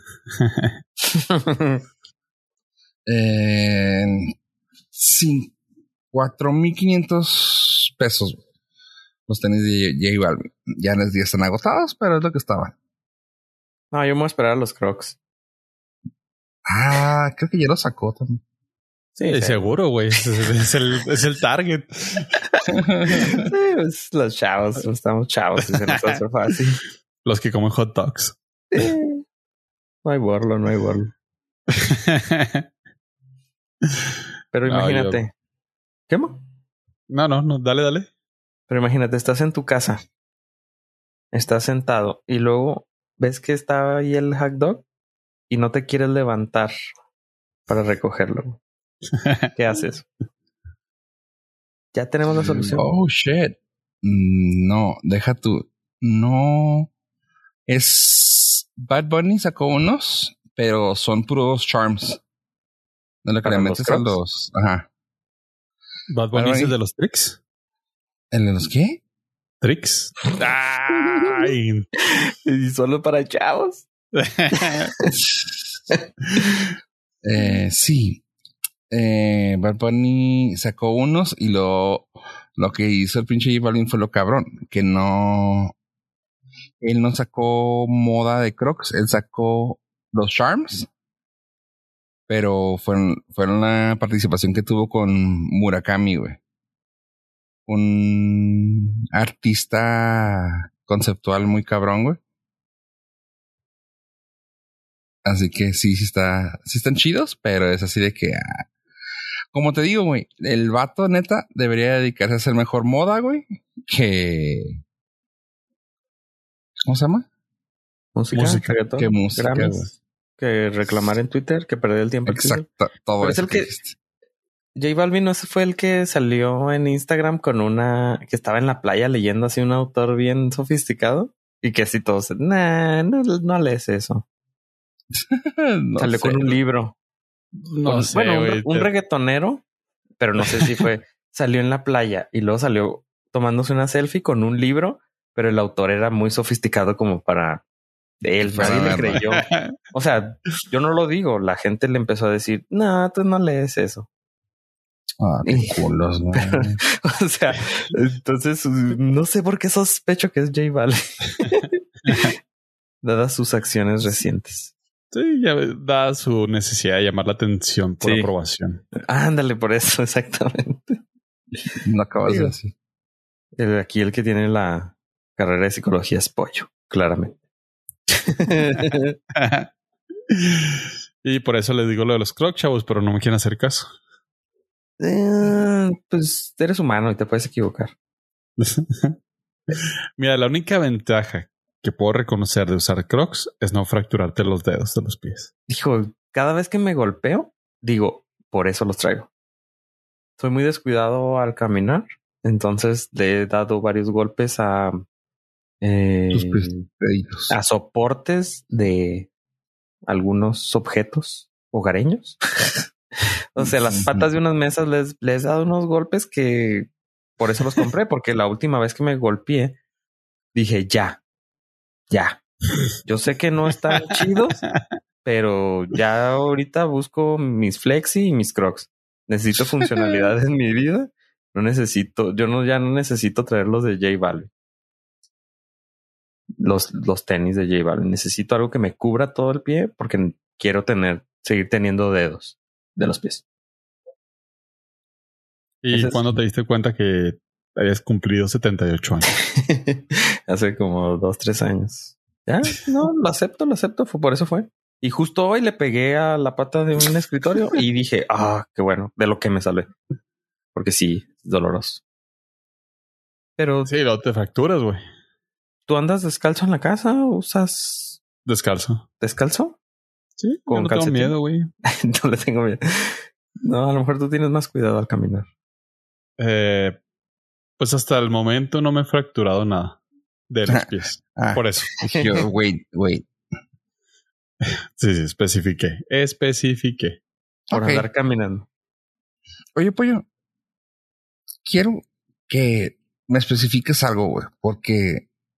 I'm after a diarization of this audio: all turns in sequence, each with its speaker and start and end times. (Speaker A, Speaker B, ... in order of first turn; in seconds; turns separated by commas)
Speaker A: 0.4-0.8, Speaker B: 1.0-1.8, Speaker C: 3.0-4.3, Speaker C: 4.9-5.5, Speaker C: 6.1-8.4, Speaker C: 9.3-12.7, Speaker B: 13.9-15.2, Speaker C: 16.7-18.4, Speaker B: 19.2-20.3, Speaker A: 19.3-22.4, Speaker C: 22.7-23.4, Speaker B: 23.1-26.8, Speaker A: 27.2-28.4, Speaker B: 28.7-29.2, Speaker B: 30.0-31.1, Speaker A: 31.7-32.6, Speaker B: 34.5-35.3, Speaker A: 34.6-35.2, Speaker B: 36.1-36.4, Speaker A: 37.1-38.1, Speaker B: 38.7-40.0, Speaker B: 41.3-44.9, Speaker B: 45.5-46.7, Speaker B: 47.7-48.6, Speaker B: 49.5-50.1, Speaker B: 51.9-52.9, Speaker C: 52.5-56.9, Speaker C: 57.7-62.2, Speaker C: 63.2-64.9, Speaker B: 63.4-64.2, Speaker A: 66.1-67.4, Speaker C: 66.3-66.8, Speaker C: 68.3-69.0, Speaker A: 69.6-71.9, Speaker B: 72.1-73.9, Speaker A: 74.1-74.9, Speaker B: 74.5-75.1, Speaker C: 75.1-75.8, Speaker B: 76.4-76.6, Speaker C: 77.2-78.2, Speaker C: 78.9-85.7, Speaker C: 86.8-90.9, Speaker C: 92.3-96.4, Speaker C: 97.7-102.2, Speaker C: 105.2-108.7, Speaker C: 109.5-114.7, Speaker C: 116.8-117.2, Speaker B: 118.1-122.6, Speaker A: 118.3-118.8, Speaker C: 119.0-119.9, Speaker C: 122.3-124.0, Speaker B: 123.2-123.7, Speaker B: 124.8-134.2, Speaker C: 135.1-136.5, Speaker B: 136.0-137.0, Speaker A: 137.7-138.9, Speaker B: 137.8-139.6, Speaker B: 140.2-147.6, Speaker A: 140.6-140.8, Speaker B: 148.2-154.1, Speaker C: 148.4-149.2, Speaker A: 148.6-149.7, Speaker C: 155.2-156.8, Speaker B: 155.4-155.8, Speaker B: 156.3-162.4, Speaker B: 163.0-164.7, Speaker A: 165.1-168.8, Speaker B: 168.0-168.3, Speaker B: 169.0-171.0, Speaker C: 171.8-172.7, Speaker B: 172.2-172.5, Speaker B: 173.6-177.4, Speaker B: 178.1-179.2, Speaker A: 179.3-179.7, Speaker A: 180.3-183.9, Speaker B: 185.0-187.9, Speaker A: 188.6-189.2, Speaker A: 190.2-195.5, Speaker B: 195.7-199.3, Speaker B: 200.4-205.0, Speaker B: 205.8-206.9, Speaker C: 206.3-207.5, Speaker B: 207.5-209.3, Speaker B: 210.1-219.8, Speaker C: 213.6-214.3, Speaker B: 220.5-221.2, Speaker B: 222.1-222.4, Speaker B: 223.0-224.6, Speaker B: 225.2-234.5, Speaker B: 236.6-243.4, Speaker A: 245.8-249.4, Speaker B: 245.9-246.2, Speaker B: 249.5-259.9, Speaker B: 260.7-262.0, Speaker B: 263.6-263.9, Speaker A: 263.9-265.0, Speaker B: 265.9-268.2, Speaker A: 268.5-269.0, Speaker B: 269.2-269.8, Speaker A: 270.4-271.7, Speaker B: 270.7-275.5, Speaker A: 276.4-277.0, Speaker A: 277.8-280.0, Speaker A: 280.5-281.9, Speaker C: 280.7-283.3, Speaker A: 284.6-287.2, Speaker C: 287.7-288.1, Speaker B: 287.7-288.7, Speaker C: 289.8-290.2, Speaker C: 291.6-295.2